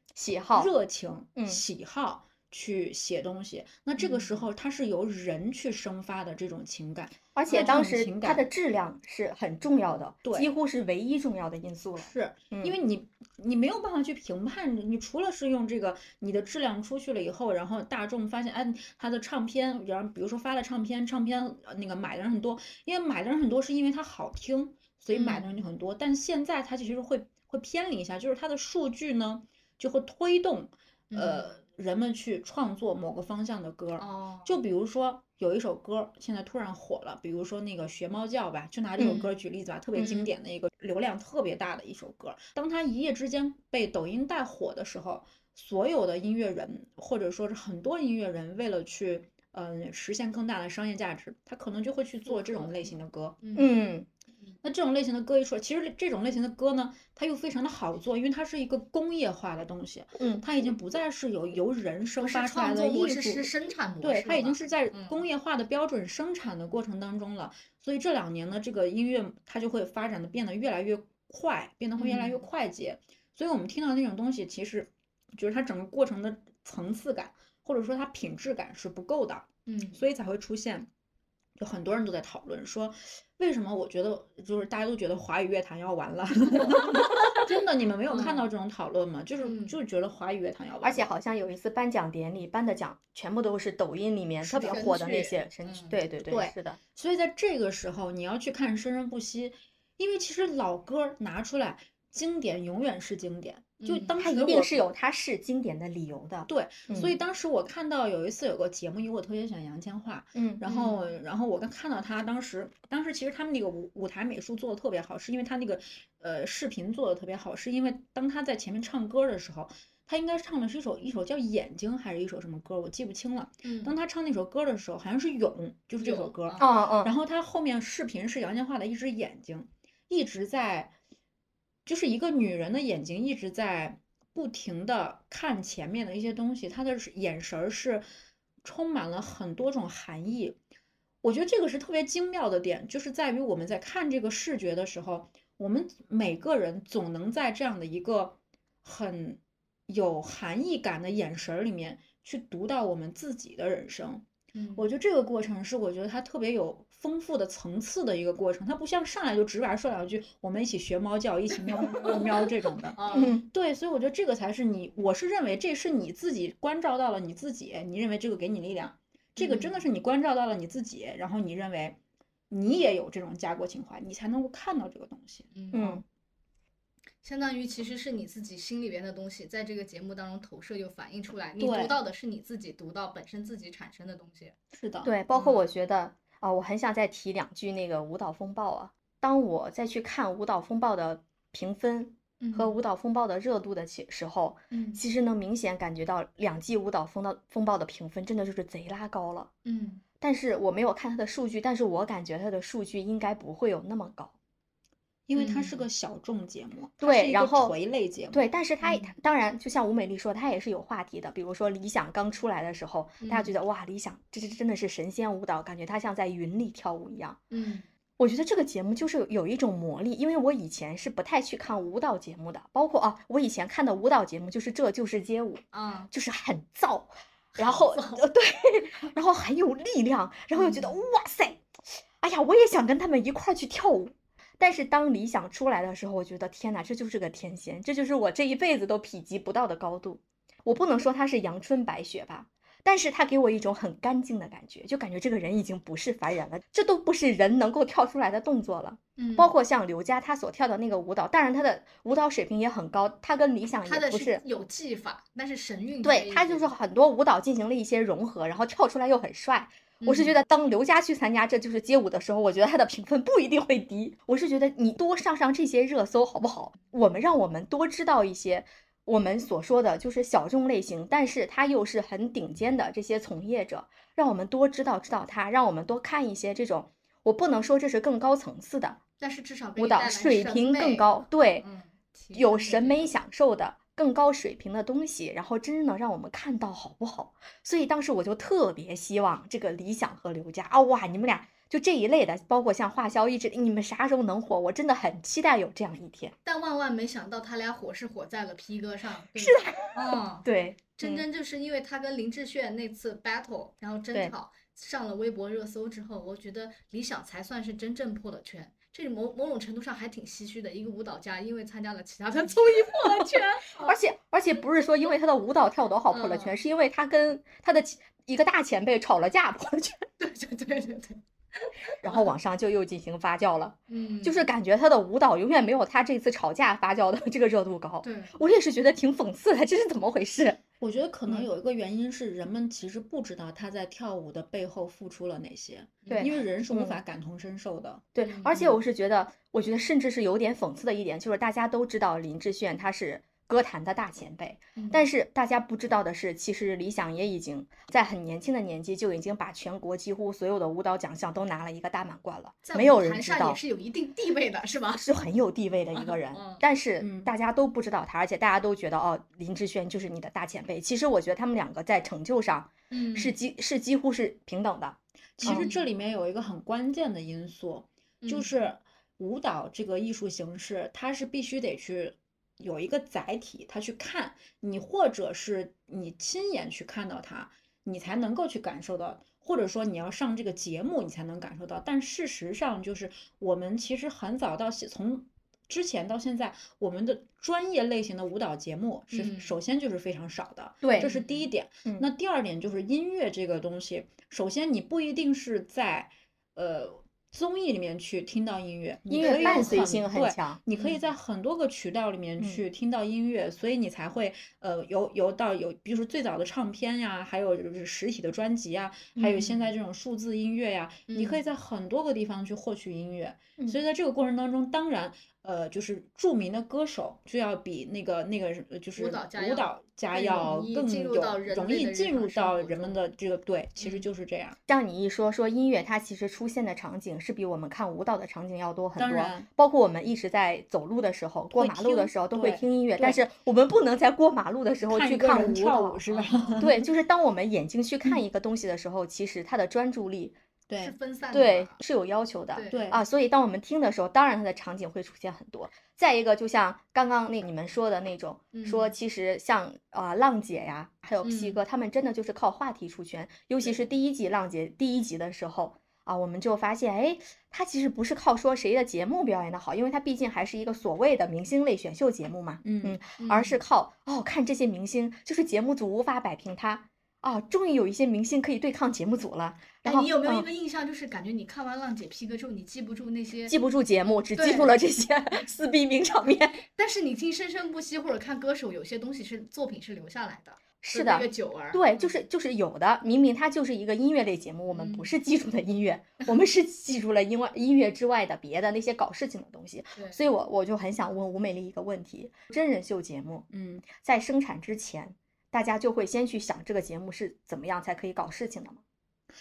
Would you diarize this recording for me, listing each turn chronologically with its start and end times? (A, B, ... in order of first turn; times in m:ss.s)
0:00.2-0:00.7 A
0:00.6-0:08.5 B
0:01.4-0:01.6 A
0:04.0-0:04.5 C
0:07.4-0:12.8 A
0:07.5-0:07.8 C
0:10.2-0:10.5 B
0:12.0-0:53.4 B
0:25.1-0:25.6 C
0:31.1-0:31.5 C
0:34.0-0:34.6 C
0:39.0-0:39.3 C
0:40.0-0:40.3 C
0:52.3-0:53.7 C
0:53.6-0:54.1 A
0:54.6-1:20.9 B
1:00.2-1:00.5 A
1:02.2-1:05.2 C
1:12.0-1:12.5 C
1:19.7-1:20.0 C
1:21.6-1:31.1 B
1:27.0-1:27.4 C
1:28.1-1:28.5 C
1:29.4-1:29.8 C
1:30.8-1:36.8 A
1:34.4-1:35.0 B
1:34.6-1:36.0 C
1:36.3-1:44.8 B
1:43.8-1:44.2 C
1:44.2-1:47.1 A
1:46.5-2:10.9 B
1:46.9-1:47.1 C
1:50.4-1:50.6 A
1:50.6-1:51.1 C
2:03.6-2:04.0 C
2:06.0-2:06.7 C
2:06.6-2:07.1 A
2:11.9-2:18.0 B
2:18.6-2:20.6 B
2:21.2-2:34.3 B
2:34.5-2:34.9 C
2:34.8-2:52.0 B
2:41.8-2:42.2 C
2:43.0-2:43.4 C
2:43.1-2:43.4 A
2:49.4-2:49.8 C
2:52.5-2:55.5 B
2:55.5-2:56.0 C
2:55.7-2:56.0 A
2:57.2-3:04.6 C
3:01.6-3:02.0 B
3:04.7-3:05.1 B
3:05.0-3:19.5 A
3:05.3-3:05.6 C
3:12.4-3:12.8 C
3:14.7-3:15.0 C
3:19.6-3:20.0 C
3:20.2-3:24.3 A
3:25.3-3:28.5 B
3:25.3-3:25.8 C
3:27.0-3:27.8 A
3:28.3-3:37.4 A
3:28.8-3:29.1 C
3:33.2-3:33.6 C
3:37.5-3:37.9 C
3:38.2-3:51.6 A
3:45.7-3:46.1 C
3:47.6-3:48.2 C
3:50.5-3:51.0 C
3:52.2-4:14.4 A
4:09.2-4:09.5 C
4:13.8-4:16.7 C
4:16.0-4:39.0 A
4:20.0-4:20.4 C
4:39.2-4:43.1 C
4:39.8-4:41.6 A
4:42.3-4:56.4 A
4:56.4-5:14.0 C
4:59.4-5:01.2 A
5:13.0-5:20.0 A
5:16.1-5:16.6 C
5:20.2-5:22.3 C
5:22.0-5:30.6 A
5:23.9-5:24.5 C
5:28.0-5:28.4 C
5:30.8-5:38.1 B
5:36.0-5:36.3 C
5:36.1-5:37.0 A
5:38.2-5:53.6 A
5:38.2-5:38.8 C
5:44.8-5:45.1 C
5:52.6-5:55.1 C
5:54.9-6:05.7 A
5:55.9-5:56.6 C
5:57.0-5:57.3 B
6:02.9-6:03.4 C
6:05.4-7:04.6 B
6:05.4-6:05.9 C
6:08.2-6:08.6 C
6:29.1-6:29.5 C
6:30.8-6:31.1 A
6:31.0-6:31.5 C
6:39.1-6:40.6 A
6:39.2-6:39.9 C
6:40.7-6:41.1 C
6:49.2-6:49.5 A
6:51.1-6:51.4 C
6:59.0-7:03.0 C
7:03.8-7:04.0 C
7:04.7-7:16.0 A
7:09.0-7:09.5 B
7:11.6-7:13.2 B
7:14.9-7:16.9 B
7:16.1-7:16.6 C
7:16.6-7:20.4 A
7:20.7-7:21.0 B
7:20.8-7:21.8 C
7:21.3-7:50.5 A
7:22.5-7:22.9 C
7:22.7-7:23.0 B
7:28.5-7:28.9 C
7:31.2-7:31.6 C
7:42.6-7:43.0 B
7:43.2-7:43.6 C
7:49.8-7:53.6 C
7:53.5-7:56.6 A
7:54.4-7:54.8 C
7:56.8-8:02.2 C
8:00.8-8:18.8 A
8:04.7-8:05.1 C
8:10.0-8:10.2 C
8:13.5-8:13.9 B